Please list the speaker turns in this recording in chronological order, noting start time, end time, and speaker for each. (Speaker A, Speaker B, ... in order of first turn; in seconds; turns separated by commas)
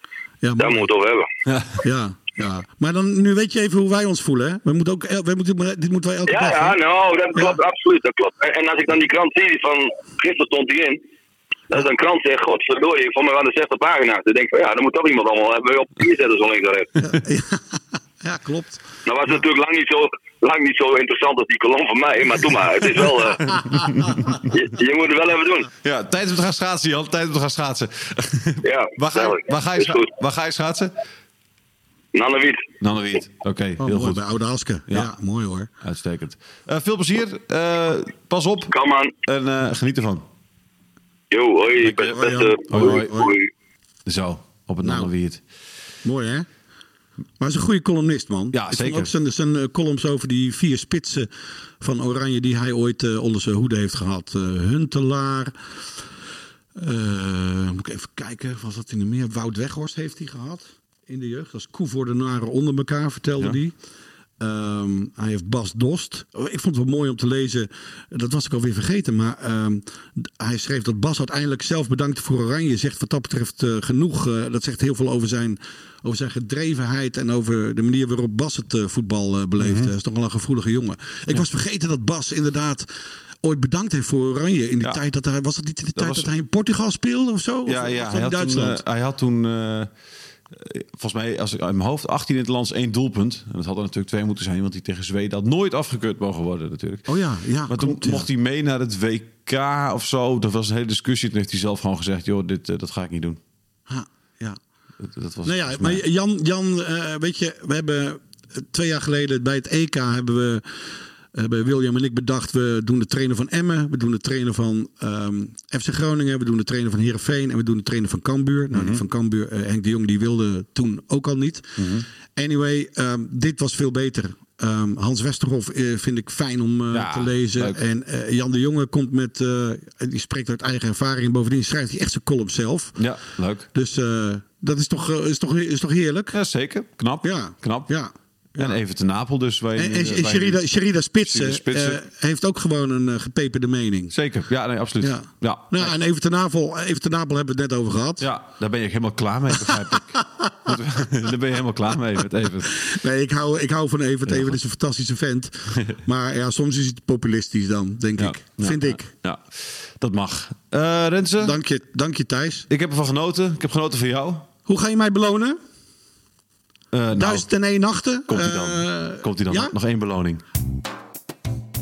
Speaker A: 0.4-0.8, Speaker B: 0.6-1.3, Speaker C: 1.5-1.8, Speaker A: 1.8-6.8, Speaker B: 6.3-11.0, Speaker B: 11.7-17.1, Speaker A: 17.0-18.8, Speaker B: 19.0-23.5, Speaker C: 23.4-24.5, Speaker A: 23.7-24.3, Speaker B: 24.5-25.7, Speaker C: 25.8-30.9, Speaker B: 28.6-30.1, Speaker B: 32.1-32.7, Speaker C: 32.8-34.2, Speaker A: 33.8-35.7, Speaker C: 35.8-38.7, Speaker B: 38.7-39.1, Speaker C: 39.2-40.2, Speaker B: 41.3-43.5, Speaker C: 41.8-43.2, Speaker A: 42.0-43.3, Speaker C: 44.0-45.4, Speaker A: 44.8-45.1, Speaker A: 46.0-46.5, Speaker A: 47.4-51.3, Speaker C: 48.5-49.1, Speaker A: 51.8-55.5, Speaker A: 56.7-63.7, Speaker A: 64.4-82.9, Speaker C: 79.6-79.9, Speaker A: 83.4-88.8, Speaker C: 86.0-86.3, Speaker C: 87.7-89.9, Speaker C: 90.5-97.1, Speaker A: 97.1-98.3, Speaker C: 97.7-103.4, Speaker A: 103.9-104.6, Speaker C: 105.0-106.0, Speaker A: 105.4-110.7, Speaker A: 111.3-133.0, Speaker C: 118.7-119.0, Speaker C: 121.8-122.0, Speaker C: 126.9-127.8, Speaker C: 133.0-133.7, Speaker A: 133.7-136.4, Speaker C: 136.3-137.9, Speaker A: 137.2-138.8, Speaker C: 138.6-140.6, Speaker A: 139.7-144.1, Speaker C: 141.2-142.0, Speaker C: 144.1-145.9, Speaker A: 145.0-148.3, Speaker C: 148.2-152.8, Speaker A: 149.5-150.8, Speaker A: 152.7-159.1, Speaker C: 154.3-154.5, Speaker C: 158.2-161.6, Speaker A: 161.4-162.7, Speaker C: 162.7-164.5, Speaker A: 164.7-165.6, Speaker C: 166.9-167.4, Speaker A: 167.1-169.7, Speaker C: 168.3-170.4